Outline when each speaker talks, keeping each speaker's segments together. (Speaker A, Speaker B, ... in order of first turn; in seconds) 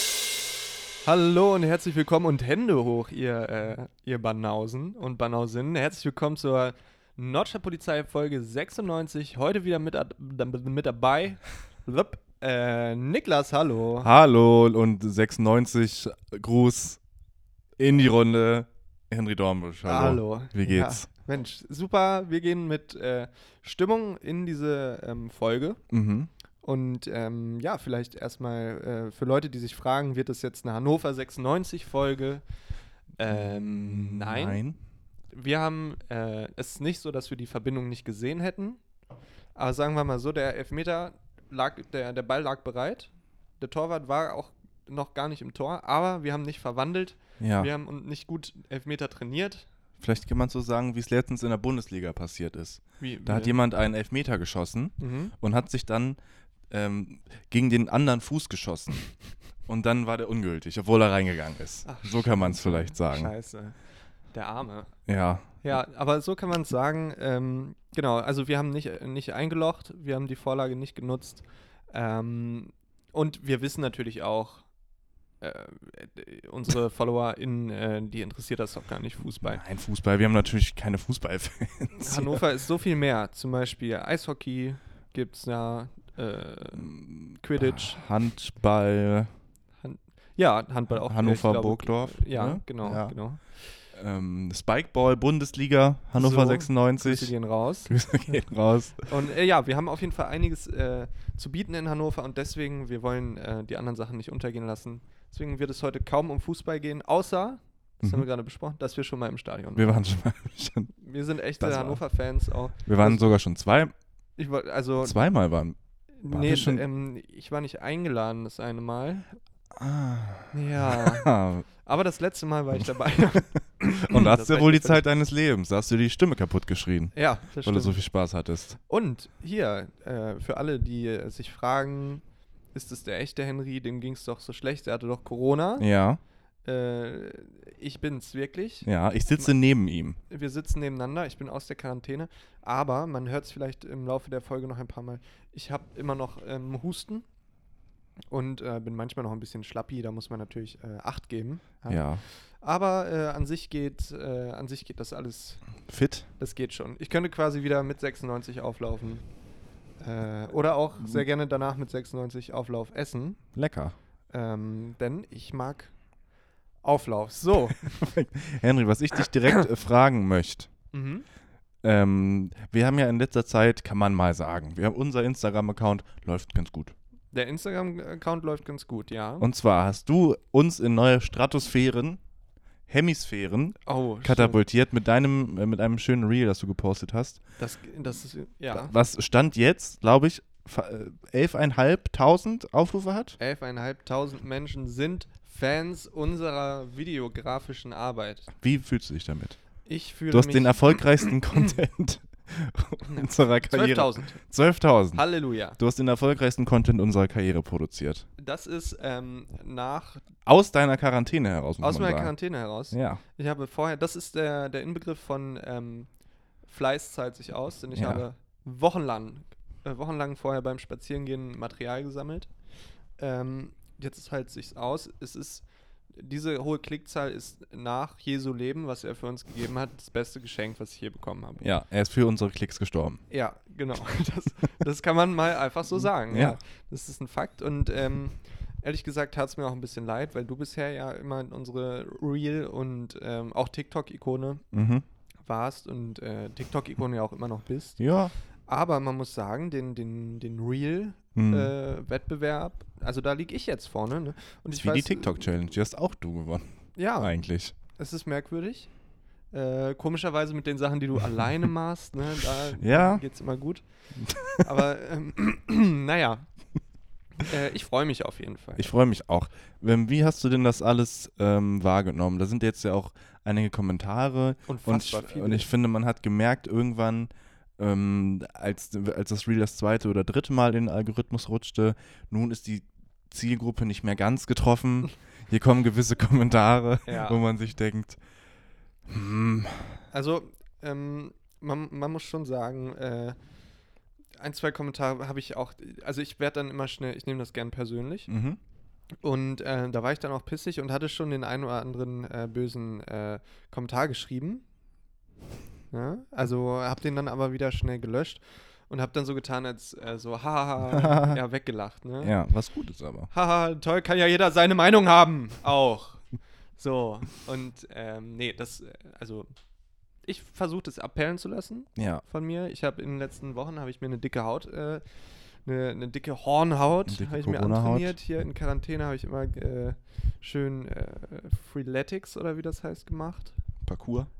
Speaker A: 1.0-14.1, 19.8-25.8, 26.6-32.4, 33.1-34.6, 35.3-38.8, 39.5-49.6, 53.0-53.6, 55.0-55.3, 61.8-63.8, 64.3-65.0, 65.6-74.7, 75.4-79.6, 81.9-88.0, 89.8-93.4, 96.1-97.9, 99.0-109.9, 111.0-113.2, 114.4-115.3, 116.2-119.3, 120.5-125.0, 127.1-128.0, 128.9-132.2, 132.7-135.9, 136.6-139.5, 140.3-147.2, 148.3-155.8, 156.4-159.3, 160.0-163.4, 164.3-165.9, 166.8-168.0, 170.9-171.2, 177.3-179.5, 183.8-184.6, 187.6-188.9, 193.4-198.5, 199.8-201.0, 203.1-204.4, 205.1-205.8, 208.4-210.2, 211.8-216.1, 216.6-222.5, 223.2-231.7, 233.3-244.6, 245.4-248.1, 248.7-255.3, 256.9-258.9, 259.5-263.8, 264.4-266.5, 267.4-268.9, 274.6-275.7, 287.1-287.4, 290.1-293.4, 294.4-298.3, 299.2-304.6, 305.9-312.4, 313.3-316.2, 316.8-319.5, 320.2-325.0, 325.6-333.6
Speaker B: 14.0-17.0, 17.8-21.1, 25.9-26.3, 33.2-34.8, 47.4-47.7, 50.0-56.2, 56.7-59.1, 59.6-63.3, 65.1-65.8, 79.3-82.4, 86.8-89.3, 91.0-93.2, 93.9-99.1, 109.8-110.9, 111.6-112.0, 112.8-113.9, 115.0-116.8, 119.7-121.7, 123.9-128.8, 135.8-136.2, 138.8-140.2, 151.9-152.2, 155.9-156.3, 161.0-161.2, 163.5-163.9, 167.7-170.7, 171.8-176.9, 179.4-182.2, 182.9-187.4, 188.7-193.4, 198.6-199.6, 200.3-208.2, 210.4-212.3, 212.9-213.2, 217.9-218.2, 231.6-233.2, 236.0-236.6, 244.7-245.0, 248.0-248.3, 251.3-251.7, 254.7-257.7, 262.8-263.2, 264.2-264.6, 268.8-288.2, 289.1-290.0, 298.3-298.6, 310.9-311.4, 312.2-313.3, 321.9-322.2, 327.1-328.2, 333.9-334.3